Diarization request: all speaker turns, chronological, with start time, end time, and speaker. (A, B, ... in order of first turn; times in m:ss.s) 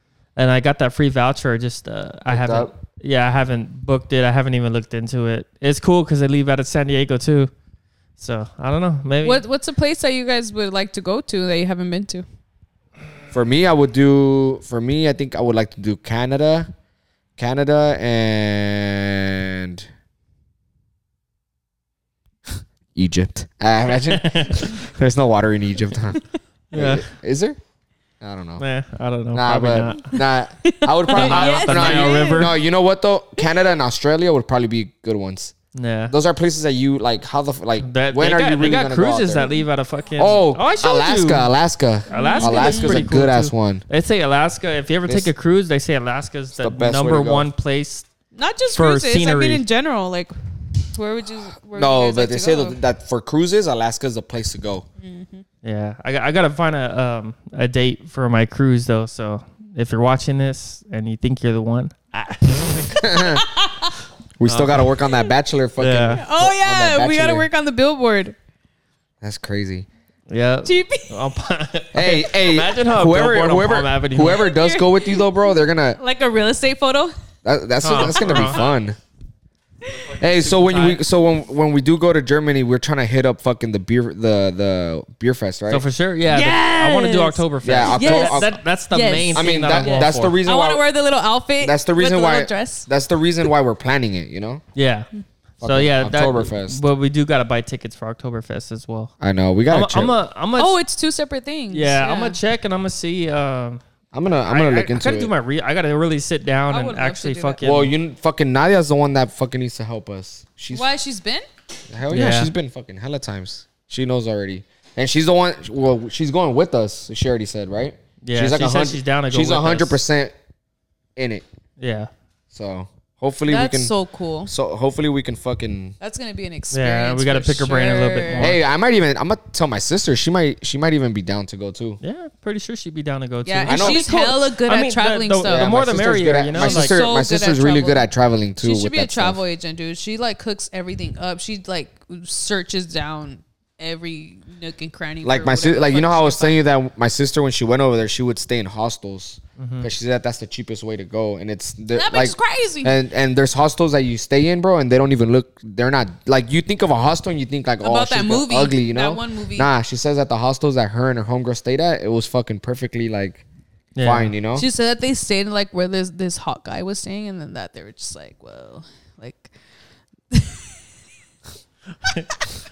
0:00.4-0:07.5 A
0:02.3-0:02.7 B
0:08.2-0:09.4 A
0:09.2-0:12.2 C
0:13.3-0:16.7 B
0:17.4-0:19.9 B
0:22.9-0:26.2 B
0:23.9-0:24.8 A
0:26.7-0:27.1 A
0:26.7-0:27.6 B
0:28.2-0:28.6 B
0:28.6-0:30.2 A
0:29.3-0:35.5 B
0:30.1-0:32.6 C
0:31.1-0:32.5 A
0:35.7-0:36.1 A
0:36.1-0:39.5 B
0:37.8-0:41.5 A
0:40.2-0:43.8 B
0:42.1-0:48.1 A
0:42.1-0:43.0 C
0:46.6-0:47.5 B
0:48.3-0:50.3 C
0:48.7-0:49.6 A
0:50.9-0:52.8 C
0:51.7-0:54.8 B
0:55.0-0:55.4 C
0:55.6-1:03.0 A
1:02.9-1:03.4 B
1:03.2-1:04.0 C
1:04.4-1:07.5 B
1:04.4-1:04.9 A
1:05.8-1:06.2 A
1:06.2-1:08.3 C
1:09.2-1:09.9 B
1:10.3-1:14.5 A
1:10.6-1:11.1 C
1:11.9-1:16.0 B
1:14.3-1:17.1 C
1:17.4-1:19.0 B
1:17.8-1:18.6 A
1:18.0-1:18.7 C
1:20.1-1:21.0 A
1:20.2-1:25.8 B
1:25.7-1:30.4 A
1:26.3-1:32.9 C
1:27.6-1:28.6 B
1:29.3-1:30.8 B
1:31.6-1:34.6 B
1:34.7-1:35.1 A
1:35.6-1:36.8 B
1:35.6-1:39.1 A
1:39.2-1:40.1 B
1:39.7-1:40.8 A
1:40.6-1:42.4 C
1:41.7-1:43.8 A
1:44.1-1:45.3 B
1:44.4-1:47.9 A
1:46.7-1:47.6 C
1:47.6-1:50.9 B
1:50.7-1:51.5 C
1:51.9-2:00.3 B
1:52.1-1:52.5 A
1:58.2-2:00.0 A
2:01.2-2:01.4 B
2:01.8-2:02.1 A
2:02.5-2:03.9 B
2:03.5-2:04.5 C
2:04.5-2:05.9 B
2:06.0-2:08.5 C
2:06.7-2:08.6 A
2:08.4-2:12.0 B
2:12.0-2:17.0 A
2:13.4-2:15.8 C
2:13.6-2:14.0 B
2:15.4-2:19.4 B
2:16.5-2:18.1 C
2:18.6-2:26.6 C
2:25.2-2:43.4 B
2:29.6-2:29.9 A
2:31.9-2:33.0 C
2:37.8-2:39.7 C
2:44.0-2:44.3 A
2:44.0-2:44.6 B
2:44.5-2:49.5 C
2:50.3-2:50.8 C